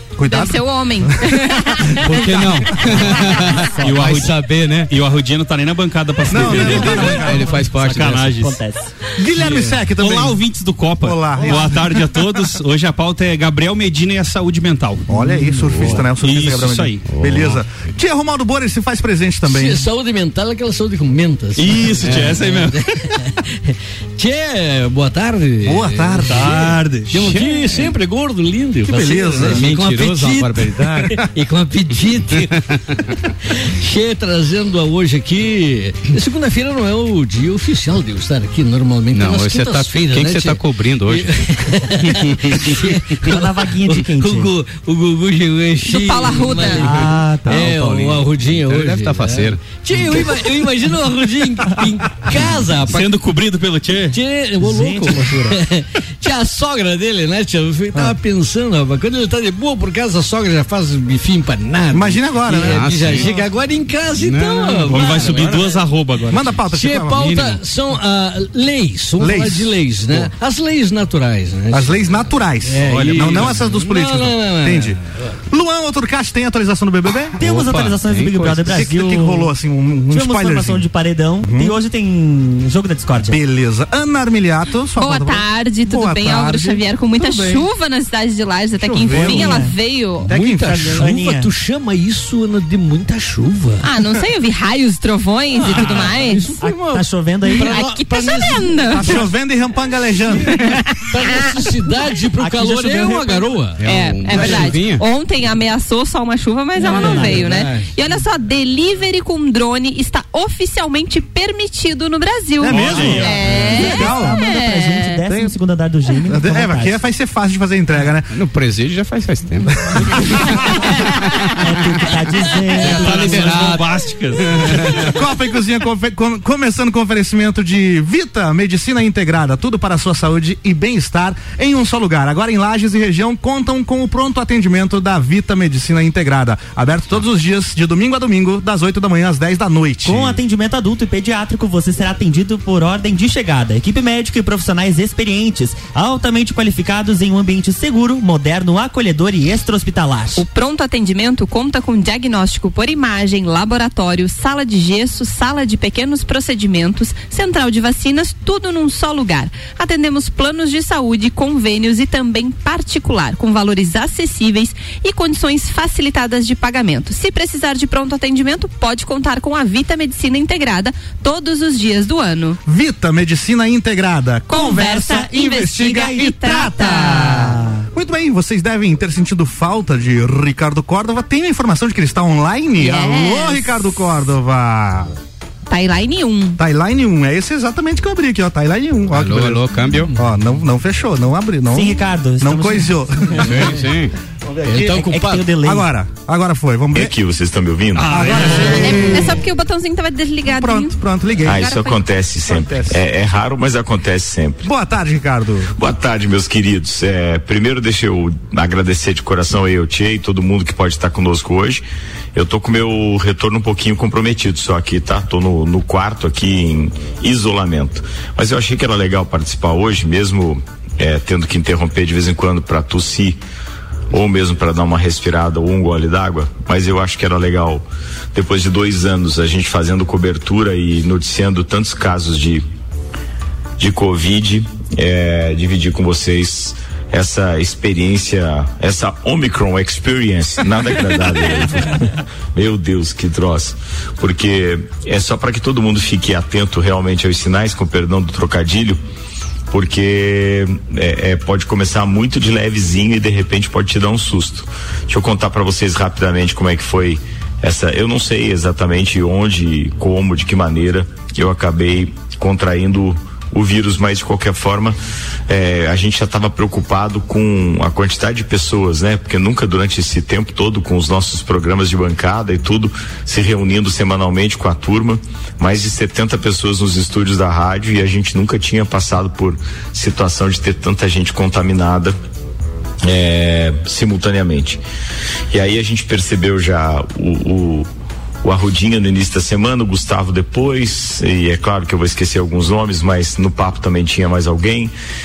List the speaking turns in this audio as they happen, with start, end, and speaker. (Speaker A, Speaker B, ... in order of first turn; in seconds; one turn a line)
Speaker A: 0.2-3.1
Speaker B: 0.3-2.1
Speaker C: 2.0-4.9
Speaker D: 3.8-4.3
Speaker D: 4.9-8.6
Speaker A: 6.3-7.6
Speaker C: 6.5-8.4
Speaker E: 6.8-7.1
Speaker E: 8.4-8.9
Speaker A: 9.2-10.4
Speaker D: 9.4-15.1
Speaker A: 11.0-12.3
Speaker A: 15.1-19.9
Speaker C: 15.6-16.0
Speaker D: 16.2-17.0
Speaker C: 17.1-17.6
Speaker F: 19.5-53.1
Speaker D: 21.6-23.0
Speaker A: 25.6-26.8
Speaker D: 26.3-27.4
Speaker C: 27.2-27.9
Speaker A: 28.8-29.7
Speaker C: 29.4-31.3
Speaker C: 39.1-41.3
Speaker C: 42.0-42.8
Speaker E: 43.2-44.5
Speaker B: 45.9-46.9
Speaker E: 46.7-47.9
Speaker C: 47.5-50.2
Speaker D: 52.9-54.2
Speaker F: 54.1-65.8
Speaker E: 54.6-55.6
Speaker A: 61.9-63.2
Speaker C: 62.6-63.3
Speaker C: 64.2-65.2
Speaker D: 64.9-66.6
Speaker A: 66.3-67.3
Speaker F: 66.7-72.0
Speaker C: 67.2-67.6
Speaker A: 69.2-70.3
Speaker A: 71.7-77.4
Speaker F: 72.6-75.3
Speaker D: 72.8-73.6
Speaker E: 77.4-79.5
Speaker C: 77.4-78.9
Speaker A: 78.7-80.9
Speaker E: 80.1-83.4
Speaker A: 81.4-81.8
Speaker A: 83.2-87.7
Speaker B: 85.0-90.3
Speaker A: 88.8-89.7
Speaker E: 89.1-89.8
Speaker F: 90.2-93.9
Speaker A: 90.3-91.0
Speaker E: 90.7-91.5
Speaker B: 93.8-96.6
Speaker F: 95.5-99.3
Speaker D: 95.7-96.1
Speaker E: 96.6-97.8
Speaker B: 97.6-99.2
Speaker A: 98.9-100.6
Speaker F: 100.4-103.8
Speaker E: 102.3-103.7
Speaker C: 103.8-105.0
Speaker B: 103.8-115.2
Speaker F: 104.3-104.7
Speaker F: 106.8-107.9
Speaker E: 106.8-107.5
Speaker A: 112.6-114.4
Speaker D: 112.7-113.4
Speaker E: 112.9-117.0
Speaker A: 115.3-115.5
Speaker A: 116.3-118.3
Speaker C: 118.3-120.5
Speaker A: 120.0-120.4
Speaker C: 121.1-121.5
Speaker E: 121.6-123.5
Speaker C: 122.8-125.1
Speaker D: 122.8-125.1
Speaker A: 125.0-140.4
Speaker E: 140.1-150.4
Speaker B: 150.4-172.6
Speaker A: 172.7-185.1
Speaker B: 174.5-177.5
Speaker E: 175.9-177.8
Speaker B: 182.8-183.8
Speaker B: 185.7-186.6
Speaker A: 186.6-193.6
Speaker C: 189.1-190.1
Speaker E: 191.7-193.7
Speaker C: 193.4-194.1
Speaker F: 194.7-195.5
Speaker E: 194.7-195.9
Speaker A: 195.6-197.2
Speaker G: 196.9-198.2
Speaker D: 197.9-199.2
Speaker A: 198.0-199.4
Speaker B: 198.6-202.0
Speaker A: 200.5-201.7
Speaker G: 201.4-204.7
Speaker A: 202.5-203.0
Speaker A: 204.6-205.7
Speaker G: 205.8-211.8
Speaker G: 212.3-223.4
Speaker G: 224.1-232.6
Speaker G: 233.8-241.9
Speaker G: 242.6-249.0
Speaker G: 249.7-265.0
Speaker G: 265.5-282.1
Speaker G: 283.0-284.8
Speaker G: 285.5-287.9
Speaker G: 288.4-294.9